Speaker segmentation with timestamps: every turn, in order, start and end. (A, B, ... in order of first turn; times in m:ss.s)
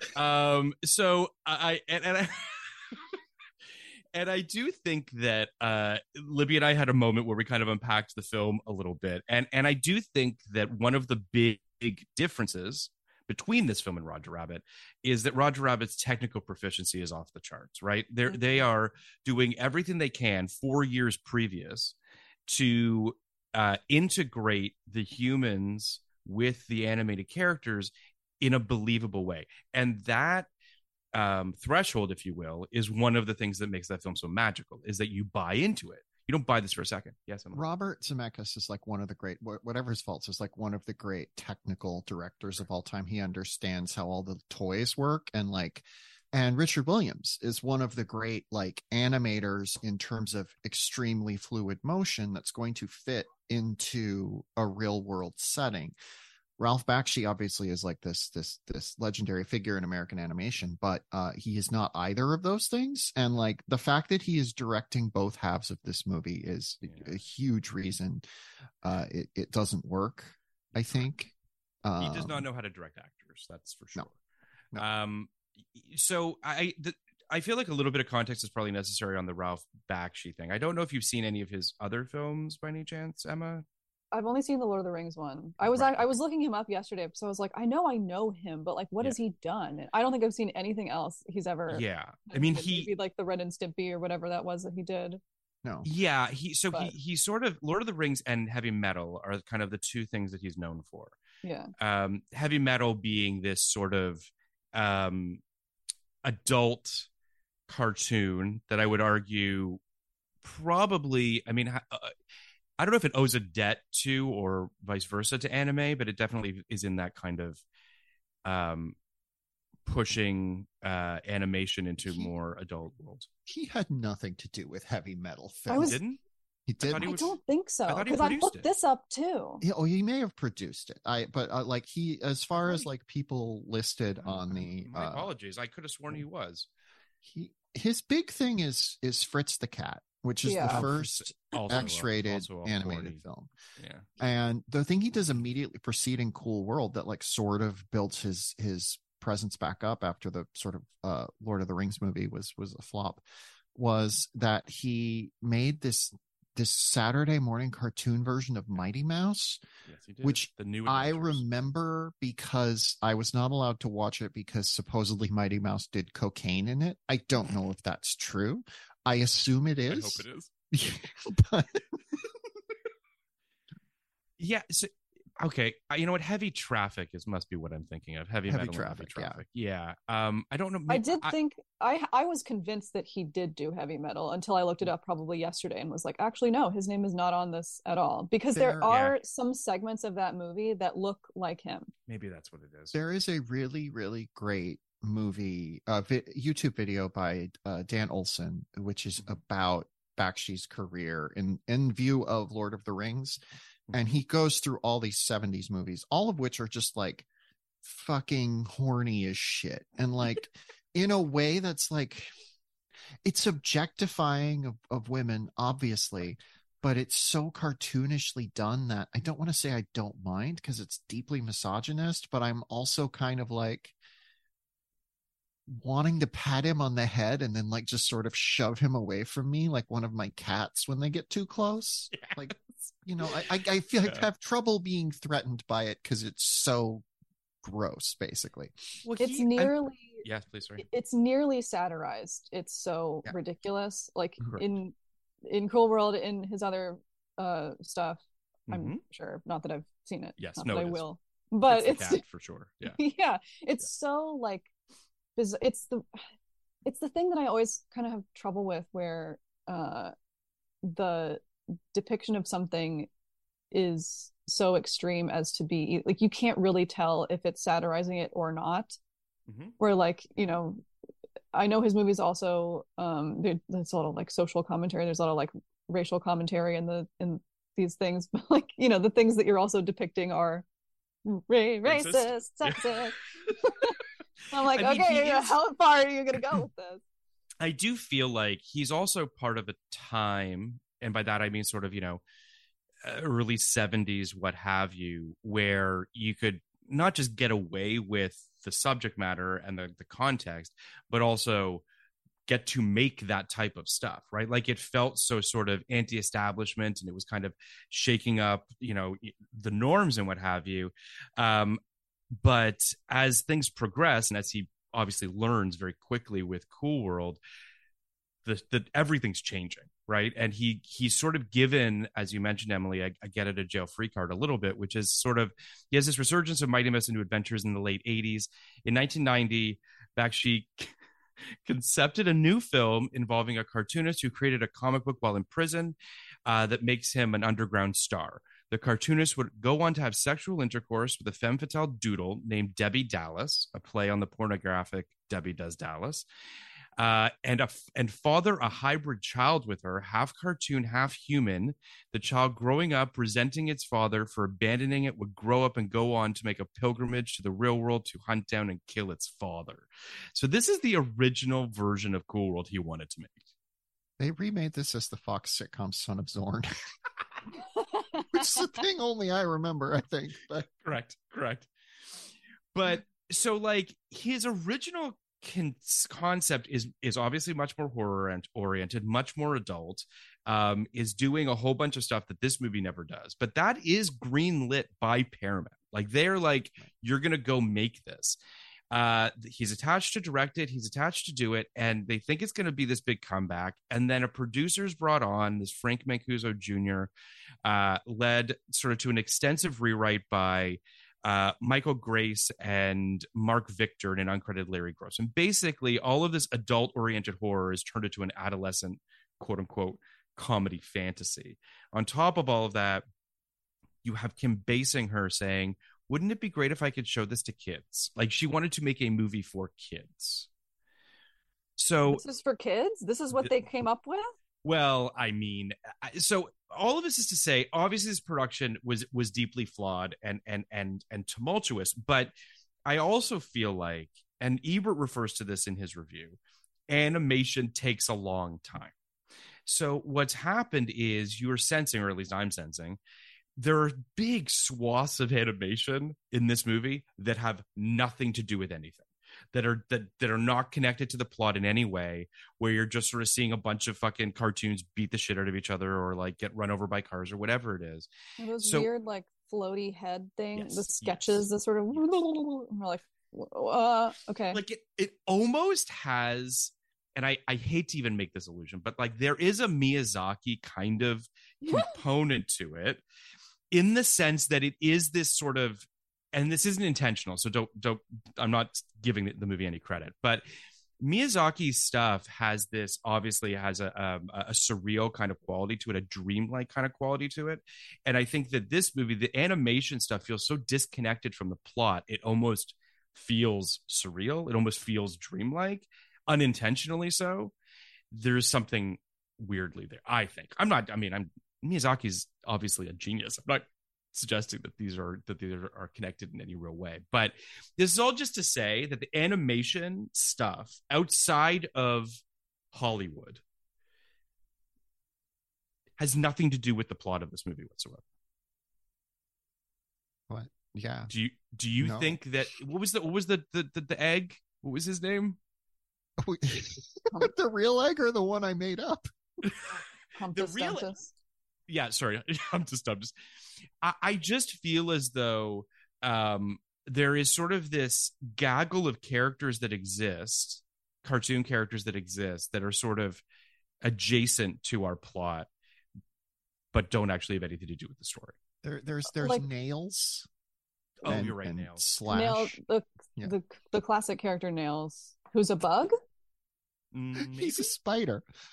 0:00.1-0:03.0 A
0:04.1-0:22.0 A
0:18.3-0:18.6 B
0:22.5-0:30.5 A
0:31.1-0:37.6 A
0:37.5-0:56.0 C
0:56.6-1:08.3 C
1:06.8-1:07.2 A
1:08.8-1:11.3 C
1:10.8-1:11.1 A
1:11.8-1:12.4 C
1:12.0-1:14.2 A
1:14.8-1:23.6 A
1:24.1-1:35.2 B
1:25.6-1:26.0 A
1:31.7-1:32.9 A
1:35.8-1:41.2 A
1:41.4-1:41.7 B
1:41.8-1:45.4 A
1:46.2-1:47.1 A
1:47.7-1:49.8 A
1:50.4-1:52.1 A
1:52.8-1:57.6 A
1:58.4-1:59.0 A
1:59.9-2:03.3 A
2:02.1-2:02.3 C
2:03.5-2:06.0 C
2:05.7-2:06.0 B
2:05.7-2:06.2 A
2:06.7-2:07.2 C
2:06.8-2:07.4 A
2:07.0-2:09.6 B
2:07.9-2:08.7 A
2:09.6-2:15.3 C
2:12.6-2:12.9 A
2:14.2-2:16.7 A
2:17.2-2:23.5 C
2:20.4-2:20.8 B
2:20.6-2:23.2 A
2:23.8-2:24.1 A
2:24.2-2:33.2 C
2:33.8-2:39.6 C
2:39.9-2:41.4 A
2:40.2-2:51.9 C
2:49.9-2:50.5 A
2:54.4-3:01.4 A
2:58.5-2:59.4 C
3:00.9-3:11.9 B
3:08.5-3:08.9 C
3:08.9-3:09.2 A
3:12.1-3:13.0 A
3:12.9-3:23.4 C
3:23.9-3:24.2 A
3:23.9-3:27.3 C
3:27.8-3:32.3 C
3:33.2-3:44.0 C
3:45.7-3:57.0 C
3:52.1-3:52.9 A
3:57.6-3:58.7 C
3:59.0-4:00.8 A
3:59.2-4:00.2 B
4:00.8-4:04.9 B
4:05.4-4:12.2 B
4:08.7-4:09.0 A
4:10.4-4:11.0 A
4:11.7-4:13.0 A
4:12.8-4:14.7 B
4:15.4-4:16.3 B
4:16.8-4:20.1 B
4:20.8-4:23.1 B
4:23.7-4:29.0 B
4:29.5-4:29.8 A
4:29.8-4:30.8 B
4:31.5-4:40.6 B
4:41.2-4:44.0 B
4:41.8-4:44.0 A
4:44.5-4:47.0 B
4:44.6-4:45.6 A
4:47.6-4:52.2 A
4:53.0-5:01.8 A
5:02.5-5:11.8 A
5:12.4-5:17.4 A
5:18.4-5:30.9 A
5:31.7-5:46.2 A
5:47.0-6:03.5 A
6:04.2-6:06.7 C
6:07.9-6:08.5 B
6:08.3-6:10.7 C
6:10.7-6:11.7 A
6:12.2-6:28.4 A
6:28.9-6:37.1 A
6:37.6-6:53.0 A
6:54.0-7:00.5 A
7:01.8-7:02.2 A
7:02.1-7:04.3 B
7:04.6-7:12.3 A
7:12.8-7:16.4 A
7:16.9-7:18.9 A
7:19.7-7:23.0 A
7:23.6-7:38.1 A
7:38.4-7:44.6 B
7:38.6-7:38.9 A
7:40.6-7:42.2 A
7:44.5-7:53.0 A
7:51.6-7:52.0 B
7:53.7-8:00.5 A
8:01.0-8:17.5 A
8:18.1-8:32.2 A
8:32.7-8:33.4 A
8:36.0-8:38.0 A
8:40.3-8:41.1 C
8:41.1-8:45.4 A
8:41.8-8:42.2 C
8:46.2-8:49.1 C
8:49.4-8:49.8 A
8:50.2-8:51.1 B
8:50.3-8:51.0 A
8:51.7-8:53.1 A
8:53.8-9:03.2 A
9:03.8-9:05.5 A
9:06.7-9:08.4 A
9:08.6-9:10.3 C
9:09.2-9:09.5 B
9:11.0-9:11.8 A
9:11.0-9:12.6 C
9:12.1-9:15.9 B
9:16.9-9:17.7 A
9:17.2-9:18.3 C